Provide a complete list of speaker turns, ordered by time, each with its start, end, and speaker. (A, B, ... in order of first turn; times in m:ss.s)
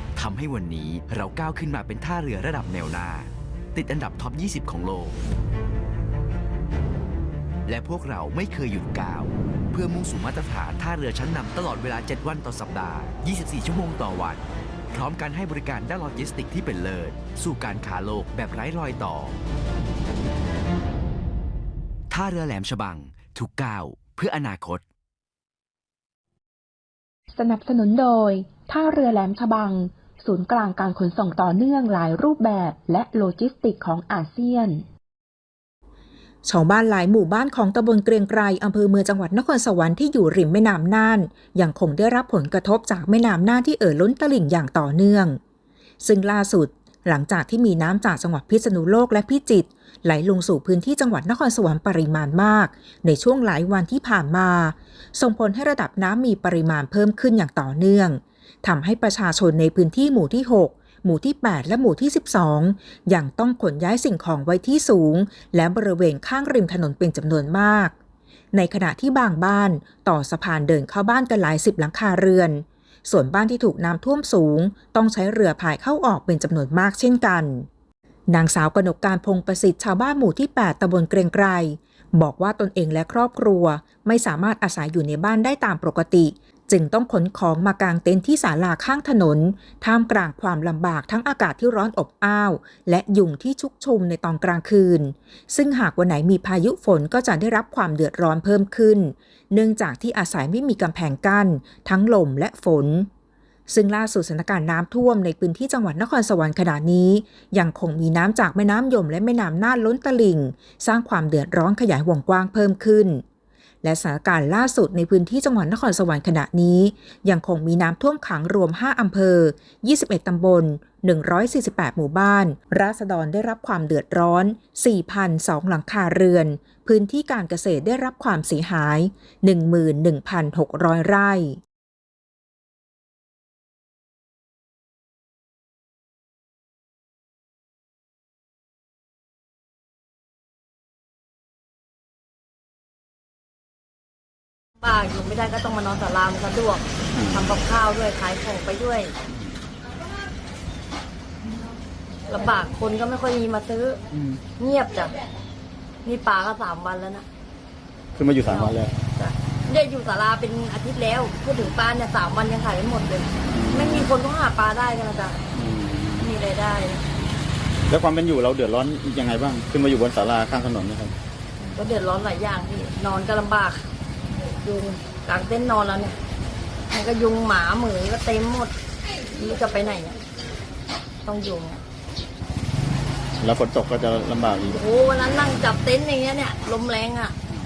0:00.2-0:05.2 A
0:07.7-0:19.4 A
0:22.1-0:24.8 A
0:27.4-0:34.8 B
0:36.5-0:45.4 C
0:46.0-1:08.0 C
1:08.5-1:17.7 C
1:18.3-1:43.1 C
1:43.7-1:53.2 C
1:53.8-2:11.6 C
2:24.8-2:29.1 D
2:27.1-2:27.5 E
2:32.3-2:34.0 D
2:34.1-2:34.4 E
2:34.6-2:35.1 D
2:36.0-2:37.3 D
2:38.2-2:38.9 E
2:38.4-2:45.4 D
2:43.5-2:44.1 E
2:45.5-2:46.3 E
2:46.2-2:47.0 D
2:47.9-2:51.1 E
2:51.7-2:53.9 D
2:54.6-2:56.2 D
2:56.9-2:58.7 D
2:59.3-3:00.2 D
3:01.2-3:01.8 D
3:03.4-3:04.8 E
3:04.7-3:07.4 D